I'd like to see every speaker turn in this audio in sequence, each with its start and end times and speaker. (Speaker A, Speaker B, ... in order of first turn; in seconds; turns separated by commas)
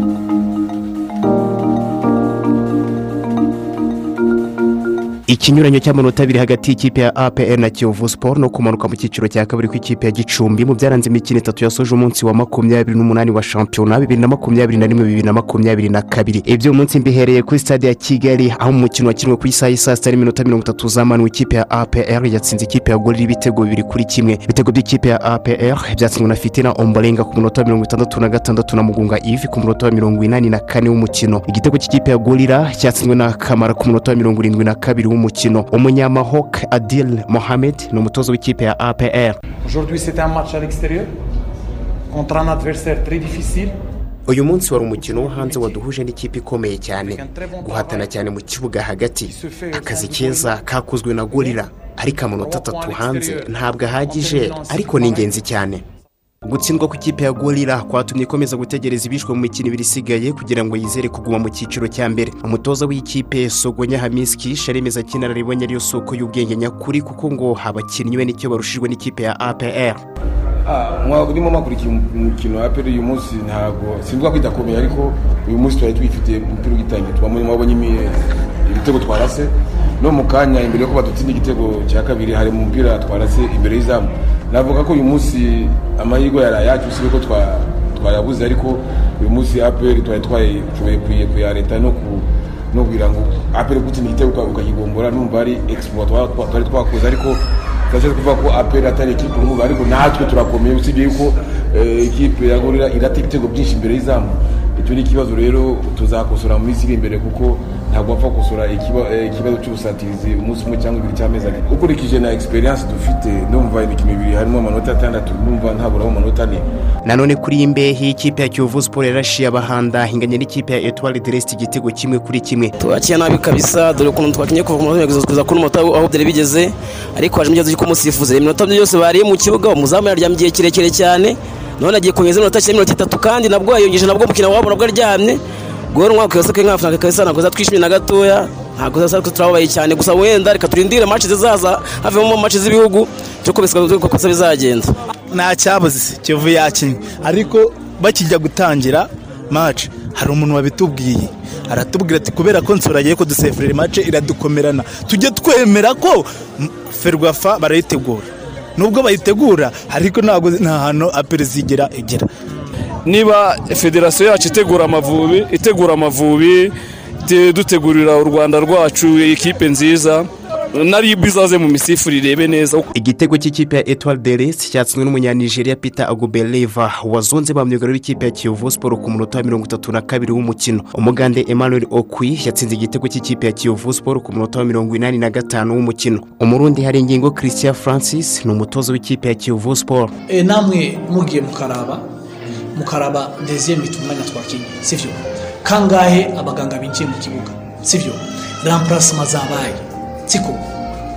Speaker A: 5.3-39.4, Speaker B: 39.6-41.1, Speaker B: 42.1-43.7, Speaker A: 44.3-55.8, Speaker B: 44.9-45.9, Speaker B: 47.0-48.3, Speaker B: 49.3-50.6, Speaker B: 51.3-55.5, Speaker A: 56.5-70.0, Speaker C: 70.7-116.6, Speaker A: 117.0-122.7, Speaker D: 122.8-135.4, Speaker D: 135.9-144.9, Speaker E: 145.3-162.3, Speaker F: 163.1-166.7, Speaker F: 167.2-172.9, Speaker A: 172.9-190.1, Speaker G: 190.3-192.1, Speaker G: 192.8-200.7